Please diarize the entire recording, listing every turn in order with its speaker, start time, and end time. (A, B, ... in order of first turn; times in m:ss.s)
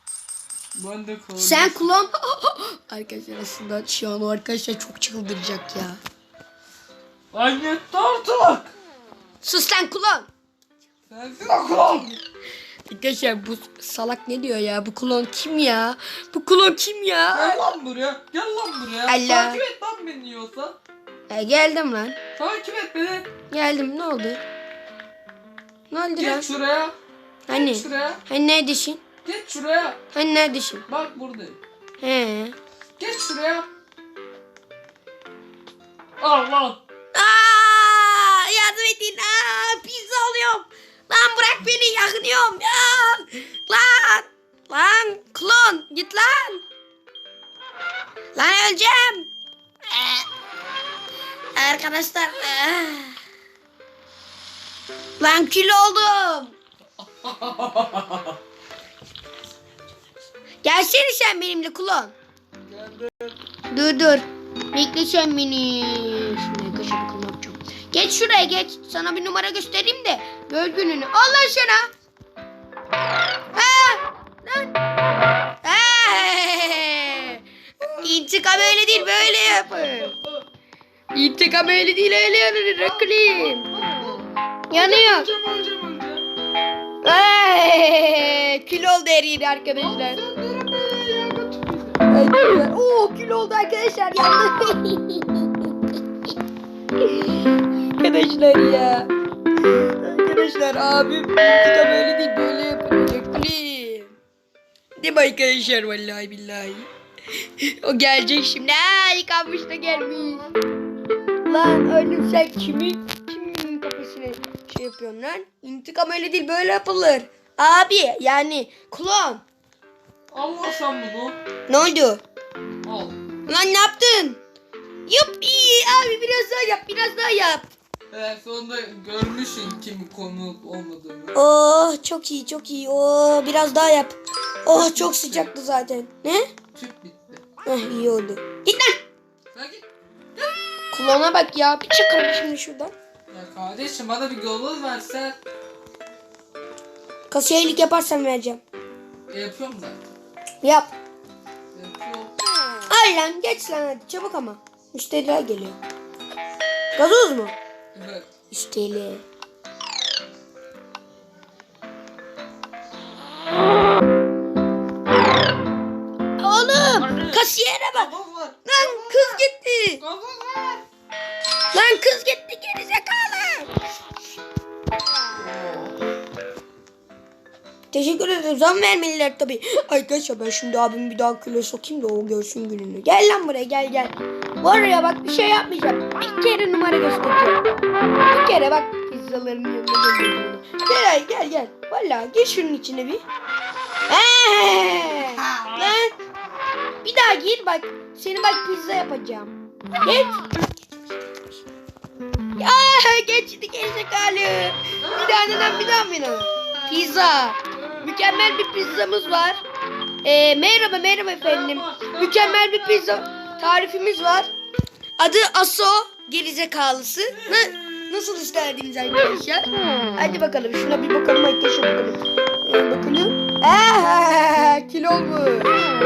0:00.7-0:01.9 A
0:01.4-0:06.0 B
0:07.3-0:08.7 A
0:09.4-0:10.3 B
0:11.1-0:12.2 A
0:12.9-0:17.7 B
0:17.3-0:20.8 A
0:19.1-0:19.6 B
0:21.3-0:22.2 B
0:22.4-0:23.3 A
0:23.5-0:24.4 B
0:25.9-0:26.5 B
0:26.2-0:27.0 A
0:27.5-0:29.0 B
0:27.5-0:28.2 A
0:29.2-0:30.0 A
0:30.1-0:30.8 B
0:30.9-0:31.6 A
0:32.0-0:32.6 B
0:33.0-0:33.7 A
0:36.2-0:36.8 A
0:37.1-0:46.6 B
0:48.4-0:49.3 B
0:51.6-0:53.2 B
0:55.2-0:56.5 B
0:57.0-0:58.4 A
1:00.6-1:02.2 B
1:02.6-1:03.4 A
1:03.7-1:11.9 B
1:13.5-1:14.8 B
1:15.6-1:20.1 B
1:17.8-1:20.4 A
1:21.1-1:23.7 B
1:22.8-1:26.2 A
1:24.7-1:25.3 B
1:27.0-1:30.2 B
1:29.8-1:32.0 A
1:32.1-1:35.7 B
1:37.0-1:39.1 B
1:39.7-1:44.2 B
1:45.0-1:50.5 B
1:51.4-1:59.4 B
2:00.3-2:01.4 A
2:01.7-2:02.2 B
2:02.8-2:03.2 A
2:03.5-2:04.4 B
2:05.1-2:07.7 B
2:08.1-2:11.4 A
2:11.4-2:16.5 B
2:14.7-2:15.5 A
2:16.7-2:17.4 A
2:17.6-2:19.0 B
2:19.5-2:19.9 A
2:20.9-2:22.9 B
2:23.3-2:25.4 A
2:27.3-2:28.6 B
2:29.3-2:30.1 A
2:30.6-2:30.9 B
2:31.7-2:32.3 A
2:32.9-2:35.8 B
2:37.0-2:37.6 B
2:38.0-2:38.3 A
2:38.5-2:39.2 B
2:46.4-2:48.1 B
2:47.0-2:49.4 A
2:48.7-2:50.0 B
2:50.0-2:50.8 A
2:51.7-2:53.8 B
2:55.3-2:56.0 A
2:57.9-3:07.6 B
3:08.3-3:13.2 B
3:14.1-3:16.2 B
3:15.5-3:16.0 A
3:17.0-3:20.5 B
3:22.6-3:29.6 B
3:25.0-3:26.0 A
3:27.8-3:28.1 A
3:30.2-3:34.5 B
3:31.4-3:33.8 A
3:35.2-3:39.7 B
3:37.4-3:37.7 A
3:40.2-3:45.8 B